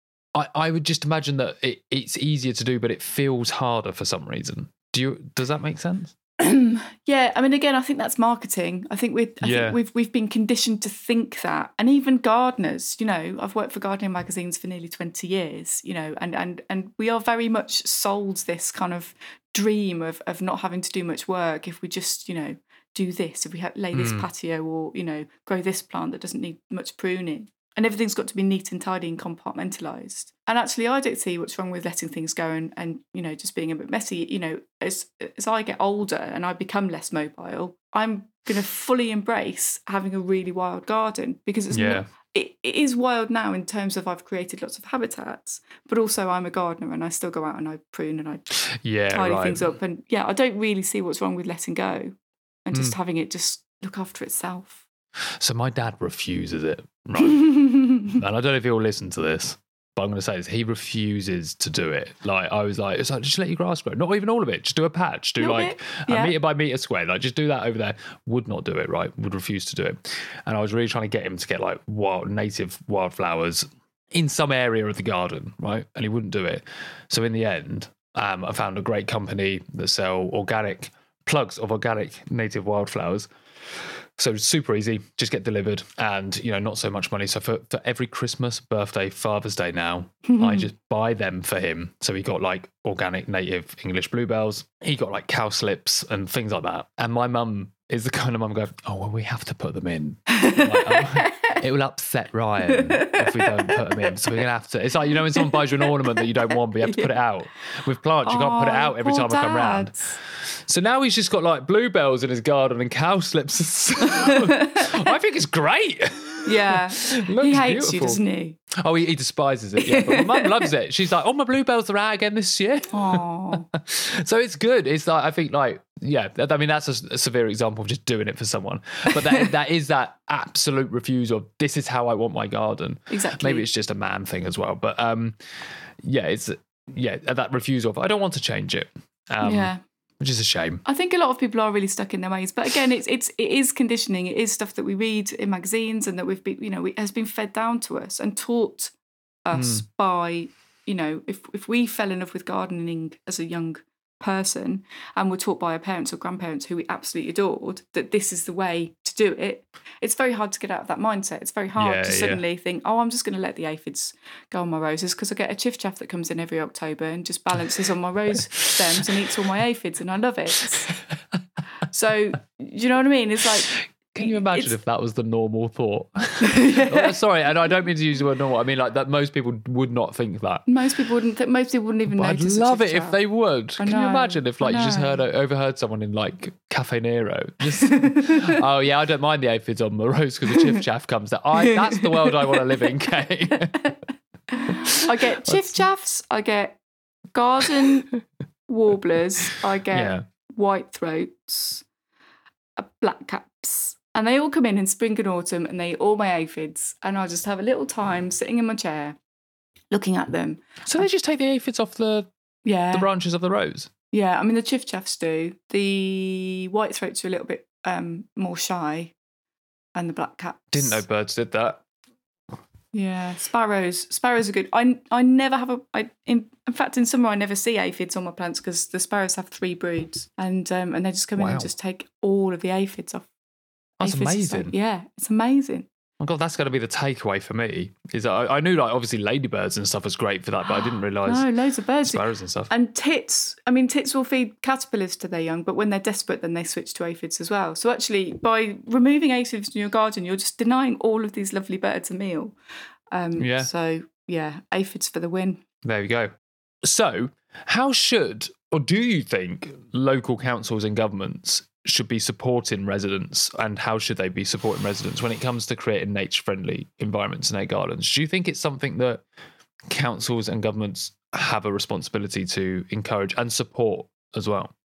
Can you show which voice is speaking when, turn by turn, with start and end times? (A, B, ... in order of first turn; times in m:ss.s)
0:00.3-0:06.1 A
0:06.4-0:48.6 B
0:09.4-0:09.8 A
0:23.9-0:24.2 A
0:41.7-0:42.0 A
0:48.7-0:49.7 A
0:49.1-0:54.8 B
0:55.4-1:23.3 A
0:57.3-0:58.1 B
1:05.4-1:06.3 B
1:24.2-1:50.0 A
1:30.3-1:30.7 B
1:40.3-1:41.6 B
1:42.7-1:44.1 B
1:45.1-1:47.1 B
1:48.2-1:50.1 B
1:50.6-1:58.2 A
1:54.2-1:55.0 B
1:56.4-1:58.6 B
1:58.8-2:15.4 A
1:59.8-2:00.7 B
2:02.9-2:03.6 B
2:09.1-2:09.5 B
2:13.1-2:13.6 B
2:16.0-2:20.8 A
2:19.4-2:19.8 B
2:20.8-2:28.9 B
2:29.4-2:51.0 B
2:29.5-2:29.8 A
2:41.8-2:42.4 A
2:51.9-2:54.8 B
2:53.9-3:00.7 A
2:56.4-2:57.1 B
3:00.7-3:03.2 B
3:02.1-3:13.9 A
3:03.8-3:05.2 B
3:07.8-3:08.5 B
3:11.6-3:12.6 B
3:14.5-3:16.8 B
3:17.3-3:18.1 B
3:18.7-3:21.8 B
3:19.9-3:20.2 A
3:22.8-3:29.2 B
3:29.9-3:31.1 B
3:30.9-3:32.3 A
3:32.6-3:33.1 B
3:32.9-3:33.9 A
3:34.1-3:39.1 B
3:40.0-3:41.0 B
3:40.7-3:41.8 A
3:42.9-3:53.3 B
3:51.4-3:51.7 A
3:54.0-3:54.7 A
3:54.0-3:55.9 B
3:56.2-4:01.4 A
4:00.6-4:12.5 B
4:02.0-4:02.7 A
4:13.1-4:15.6 B
4:13.4-4:13.7 A
4:15.8-4:16.3 A
4:16.8-4:29.2 A
4:29.9-4:34.7 A